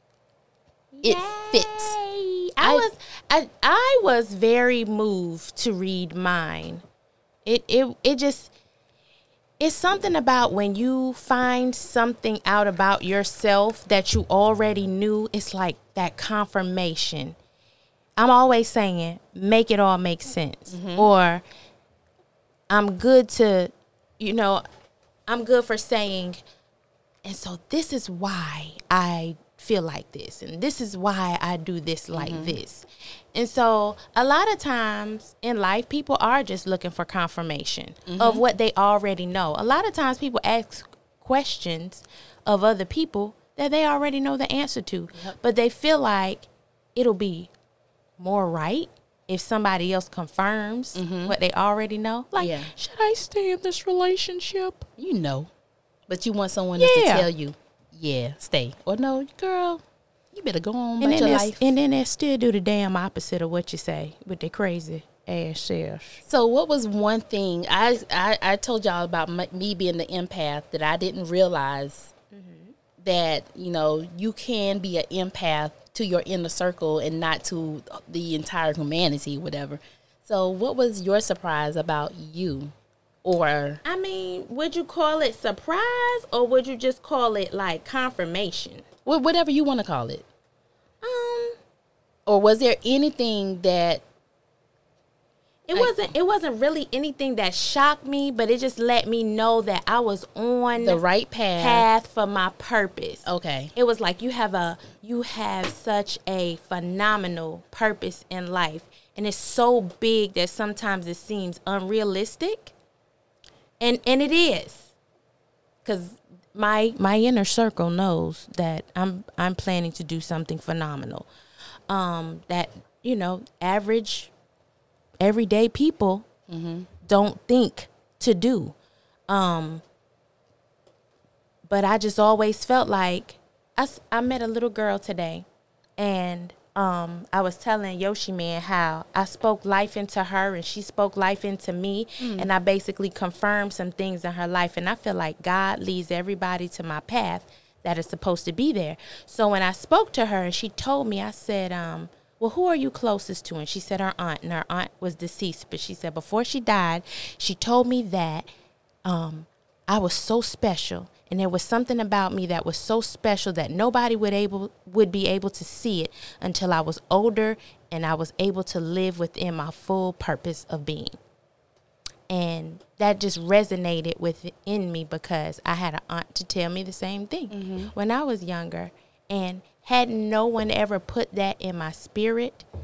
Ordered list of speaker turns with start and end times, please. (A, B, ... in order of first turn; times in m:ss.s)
0:00.9-0:06.8 A
0:01.0-0:02.0 B
0:02.6-0:02.9 B
0:07.4-0:08.5 A
0:09.6-0:17.4 A
0:18.2-0:21.4 A
0:20.7-0:21.1 B
0:22.7-0:24.6 A
0:25.3-0:26.4 A
0:27.2-0:47.5 A
0:32.1-0:32.6 B
0:38.1-0:38.4 B
0:48.2-0:54.9 A
0:51.0-0:51.4 B
0:52.4-0:52.7 B
0:55.0-0:55.5 B
0:56.1-0:59.8 B
0:56.8-0:57.3 A
1:00.3-1:01.6 B
1:01.0-1:06.2 A
1:06.2-1:12.1 B
1:12.3-1:12.7 A
1:13.0-1:22.7 B
1:23.2-1:23.8 B
1:23.8-1:28.8 A
1:29.1-1:30.2 B
1:31.0-1:31.6 A
1:32.3-1:34.0 B
1:35.7-1:41.0 A
1:40.8-1:41.9 B
1:41.6-1:52.7 A
1:43.2-1:43.7 B
1:53.8-1:54.9 A
1:55.8-2:01.3 A
2:01.9-2:04.3 A
2:05.2-2:06.3 A
2:06.5-2:06.9 B
2:07.0-2:08.7 A
2:09.3-2:09.8 A
2:11.7-2:15.4 A
2:16.0-2:38.5 A
2:22.2-2:22.5 B
2:39.0-2:51.2 A
2:52.3-3:02.6 A
2:57.5-2:57.9 B